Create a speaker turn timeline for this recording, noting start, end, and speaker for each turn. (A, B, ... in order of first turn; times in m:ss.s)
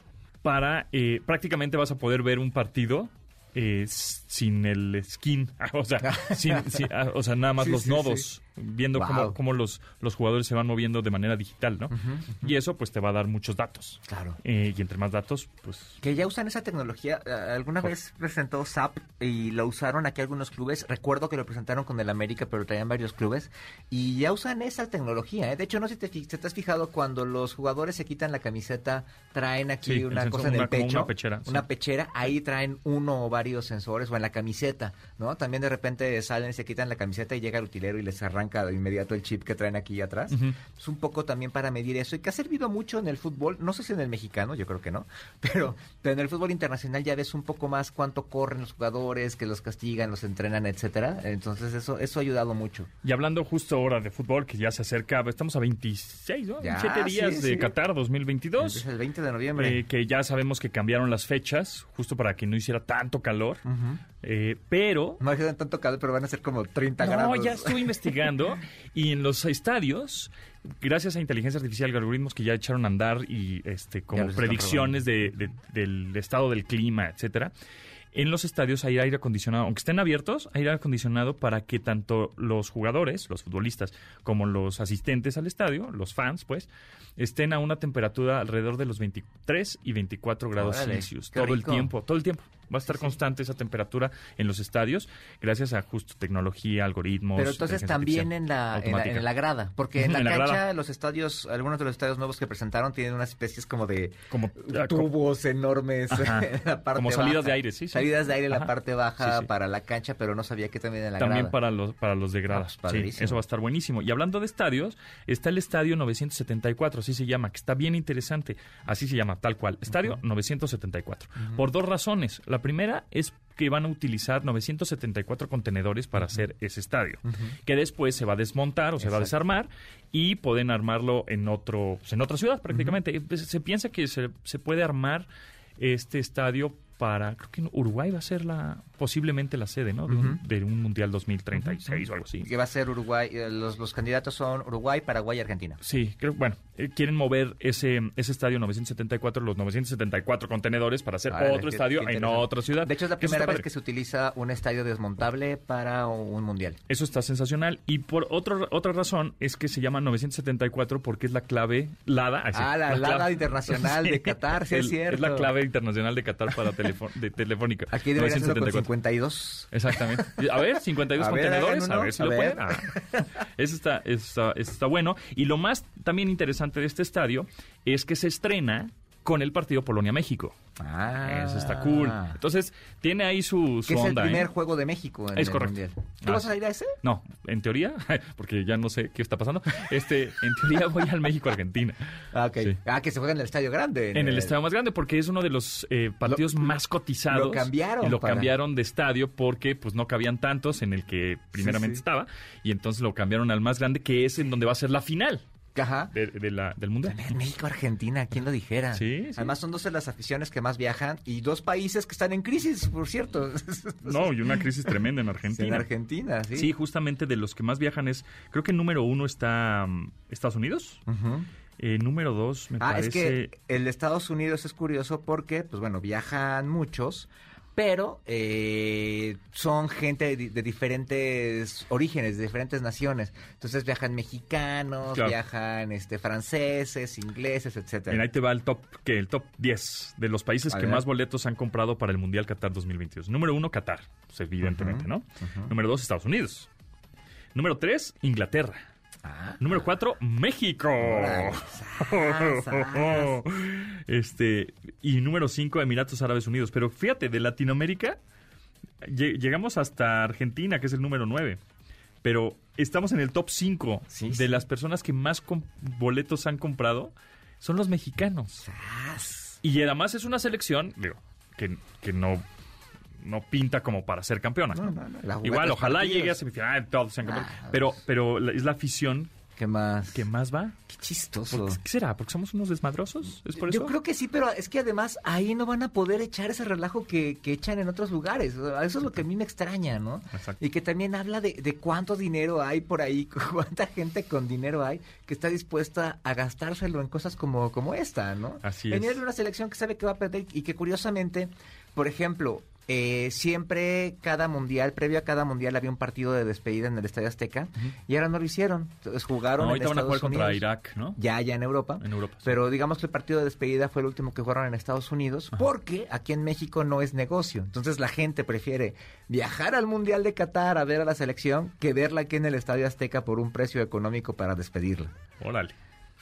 0:00.4-0:16.0 A
0:06.0-0:06.6 B
0:07.6-0:08.2 B
0:09.0-0:09.4 B
0:11.9-0:12.4 B
0:14.1-0:14.4 B
0:16.0-0:52.9 B
0:29.8-0:31.6 A
0:40.3-0:40.6 A
0:53.0-0:58.8 A
0:56.6-0:57.7 B
0:58.6-0:59.8 B
0:59.6-1:03.6 A
1:03.6-1:04.0 B
1:04.2-1:05.2 A
1:05.2-1:07.9 B
1:07.0-1:17.5 A
1:14.1-1:15.0 B
1:18.1-1:39.3 A
1:30.6-1:31.9 B
1:37.3-1:51.5 B
1:40.0-1:40.6 A
1:44.3-1:45.1 A
1:46.1-1:48.7 A
1:49.2-1:49.5 A
1:51.2-2:22.5 A
1:52.5-1:53.4 B
2:07.2-2:07.5 B
2:09.0-2:09.3 B
2:12.7-2:13.0 B
2:20.1-2:20.4 B
2:21.9-2:25.8 B
2:25.8-2:33.6 A
2:31.3-2:36.8 B
2:36.9-2:48.9 A
2:42.5-2:45.5 B
2:47.9-2:50.4 B
2:49.7-3:00.6 A
2:51.1-2:53.2 B
3:00.8-3:02.4 B
3:01.2-3:04.5 A
3:03.9-3:06.9 B
3:05.3-3:06.5 A
3:07.0-3:12.0 A
3:12.3-3:14.5 B
3:14.1-3:25.4 A
3:16.3-3:16.6 B
3:17.3-3:18.5 B
3:21.5-3:22.0 B
3:25.7-3:26.1 B
3:26.1-3:27.3 A
3:27.0-3:34.6 B
3:28.9-3:29.5 A
3:34.0-3:35.9 A
3:35.5-3:36.7 B
3:36.5-3:41.0 A
3:41.1-3:41.5 B
3:41.8-3:43.5 A
3:42.8-3:58.2 B
3:55.1-3:55.4 A
3:58.1-4:06.7 A
4:00.7-4:01.0 B
4:04.6-4:05.7 B
4:07.5-4:08.8 A
4:09.2-4:09.8 B
4:09.6-4:18.2 A
4:11.0-4:13.4 B
4:19.0-4:21.6 A
4:22.2-4:28.6 A
4:24.1-4:24.6 B
4:28.6-4:29.6 B
4:29.6-4:32.4 A
4:33.2-4:39.3 A
4:34.7-4:36.4 B
4:37.2-4:38.0 B
4:39.6-4:40.2 B
4:40.1-4:40.8 A
4:40.9-4:41.8 B
4:41.5-4:43.9 A
4:43.6-5:10.6 B
4:58.6-4:59.2 A
5:09.6-5:11.2 A
5:11.2-5:25.1 B
5:12.0-5:12.5 A
5:25.4-5:25.7 A